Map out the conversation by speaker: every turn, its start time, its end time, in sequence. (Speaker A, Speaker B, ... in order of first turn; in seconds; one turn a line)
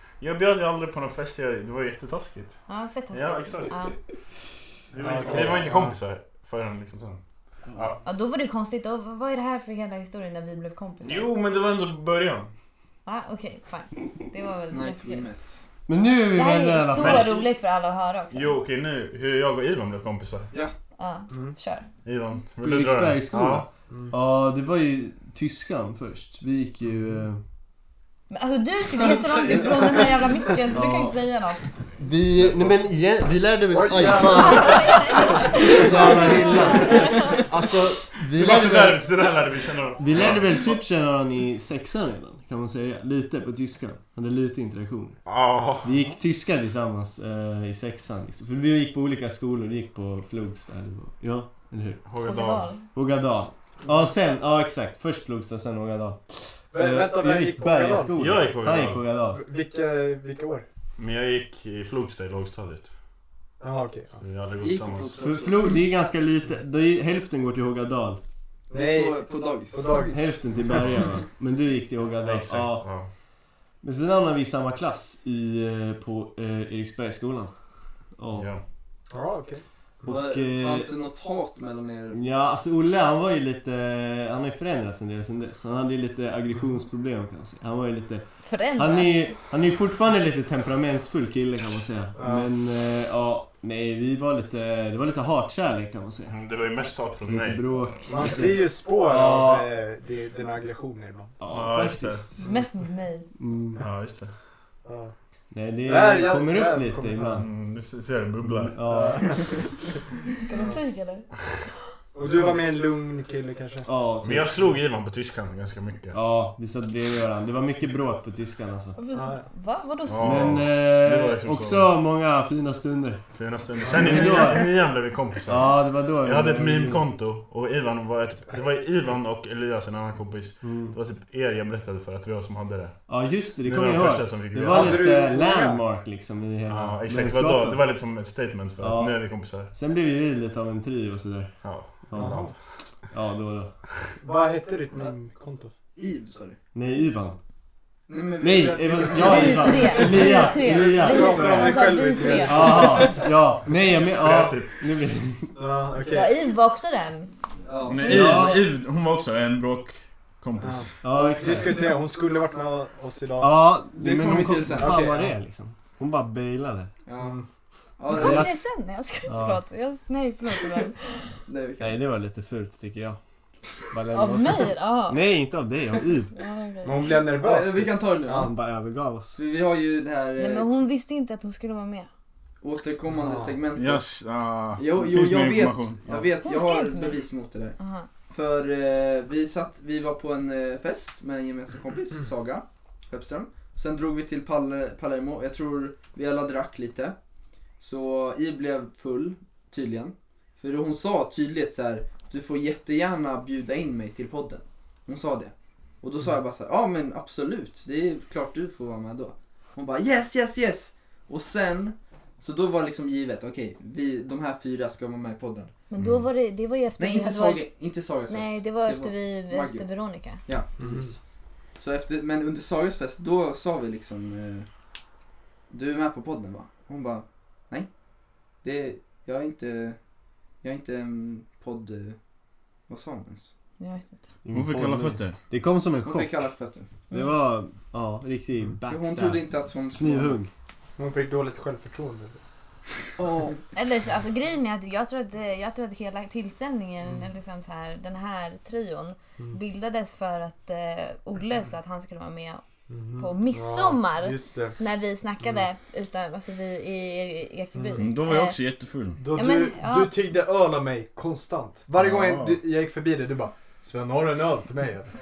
Speaker A: 0.2-3.8
Speaker B: 2.7-4.0
Speaker A: 4.9-7.2
Speaker C: 5.0-5.9
Speaker A: 7.7-8.0
Speaker B: 8.1-11.3
Speaker A: 11.0-12.5
Speaker B: 13.1-15.3
Speaker D: 14.7-15.6
Speaker E: 15.9-17.4
Speaker B: 16.3-18.6
Speaker A: 16.9-17.5
Speaker A: 18.3-20.5
Speaker B: 21.0-21.9
Speaker A: 22.1-23.7
Speaker E: 22.6-27.4
Speaker B: 28.3-31.7
Speaker E: 30.7-31.2
Speaker E: 32.0-39.1
Speaker C: 33.7-36.5
Speaker B: 34.4-37.4
Speaker A: 38.3-40.8
Speaker E: 40.0-45.2
Speaker A: 45.3-45.9
Speaker E: 45.8-52.0
Speaker A: 52.0-52.7
Speaker B: 52.2-52.9
Speaker E: 52.9-59.4
Speaker C: 56.7-58.1
Speaker A: 58.2-59.0
Speaker C: 59.3-60.7
Speaker A: 61.0-62.9
Speaker C: 63.6-64.2
Speaker A: 64.2-65.2
Speaker D: 64.6-65.8
Speaker E: 65.2-68.2
Speaker C: 68.7-70.2
Speaker D: 68.7-70.2
Speaker E: 70.1-72.9
Speaker A: 72.2-73.1
Speaker E: 73.8-77.5
Speaker E: 78.2-78.5
Speaker A: 78.3-78.6
Speaker C: 79.1-80.1
Speaker E: 80.1-80.9
Speaker D: 80.1-82.2
Speaker E: 82.1-96.4
Speaker B: 88.4-89.3
Speaker C: 92.2-92.5
Speaker A: 96.3-97.7
Speaker E: 97.3-99.7
Speaker C: 98.1-101.3
Speaker E: 101.4-102.4
Speaker A: 101.5-102.3
Speaker B: 102.4-103.3
Speaker E: 103.4-103.8
Speaker A: 103.8-104.3
Speaker C: 104.8-105.1
Speaker E: 105.5-107.5
Speaker C: 105.8-107.4
Speaker A: 107.4-108.8
Speaker E: 108.4-109.4
Speaker C: 108.9-109.5
Speaker B: 110.3-111.3
Speaker C: 112.1-113.9
Speaker E: 113.9-114.6
Speaker A: 114.2-116.2
Speaker E: 116.1-119.0
Speaker B: 119.0-120.5
Speaker C: 119.1-119.5
Speaker A: 120.1-121.9
Speaker E: 120.2-123.2
Speaker A: 123.3-133.0
Speaker E: 123.9-124.7
Speaker E: 125.5-127.0
Speaker E: 130.6-131.0
Speaker E: 133.1-137.8
Speaker A: 133.6-135.1
Speaker C: 134.7-135.8
Speaker A: 136.7-139.7
Speaker E: 138.8-141.6
Speaker A: 141.6-142.5
Speaker E: 142.1-142.5
Speaker C: 142.2-142.5
Speaker E: 143.1-143.7
Speaker C: 144.2-145.7
Speaker D: 146.0-146.6
Speaker E: 146.7-147.4
Speaker D: 148.1-150.2
Speaker E: 148.4-151.8
Speaker B: 149.2-153.1
Speaker C: 150.1-153.3
Speaker E: 152.4-155.6
Speaker A: 153.9-154.8
Speaker C: 155.6-156.3
Speaker B: 156.1-157.3
Speaker D: 157.7-158.0
Speaker A: 157.9-161.0
Speaker B: 157.9-158.7
Speaker E: 158.0-158.6
Speaker C: 160.6-163.6
Speaker E: 161.0-161.8
Speaker E: 163.4-166.9
Speaker D: 164.0-165.1
Speaker C: 164.8-165.3
Speaker D: 167.1-167.4
Speaker C: 167.2-167.5
Speaker D: 168.0-168.6
Speaker B: 168.1-171.3
Speaker E: 168.2-168.5
Speaker E: 169.3-169.6
Speaker D: 170.5-170.9
Speaker D: 171.5-172.0
Speaker E: 171.8-173.2
Speaker E: 173.8-176.3
Speaker B: 174.1-175.2
Speaker B: 176.3-177.2
Speaker C: 176.8-178.5
Speaker D: 177.3-178.5
Speaker E: 178.3-179.4
Speaker D: 179.4-180.7
Speaker B: 180.4-182.1
Speaker D: 182.6-184.0
Speaker C: 183.1-183.6
Speaker A: 183.8-186.3
Speaker D: 184.8-187.8
Speaker B: 186.4-187.2
Speaker B: 187.8-188.1
Speaker D: 188.3-197.2
Speaker D: 197.8-215.7
Speaker B: 215.9-217.7
Speaker A: 216.0-216.2
Speaker D: 217.0-219.9
Speaker B: 218.3-220.4
Speaker D: 220.4-221.2
Speaker C: 220.8-221.1
Speaker D: 221.8-224.7
Speaker D: 225.7-227.9
Speaker D: 228.6-230.0
Speaker D: 230.6-232.2
Speaker D: 232.9-233.5
Speaker B: 233.8-234.2
Speaker E: 234.4-236.5
Speaker A: 234.5-235.4
Speaker D: 236.0-236.9
Speaker B: 237.1-237.4
Speaker E: 237.1-240.5
Speaker D: 238.9-240.4
Speaker C: 241.0-242.4
Speaker E: 243.2-243.6
Speaker B: 243.8-252.6
Speaker C: 252.9-254.8
Speaker B: 253.2-258.6
Speaker C: 257.8-258.0
Speaker A: 258.0-259.2
Speaker C: 259.2-265.1
Speaker B: 259.4-260.2
Speaker A: 262.0-262.6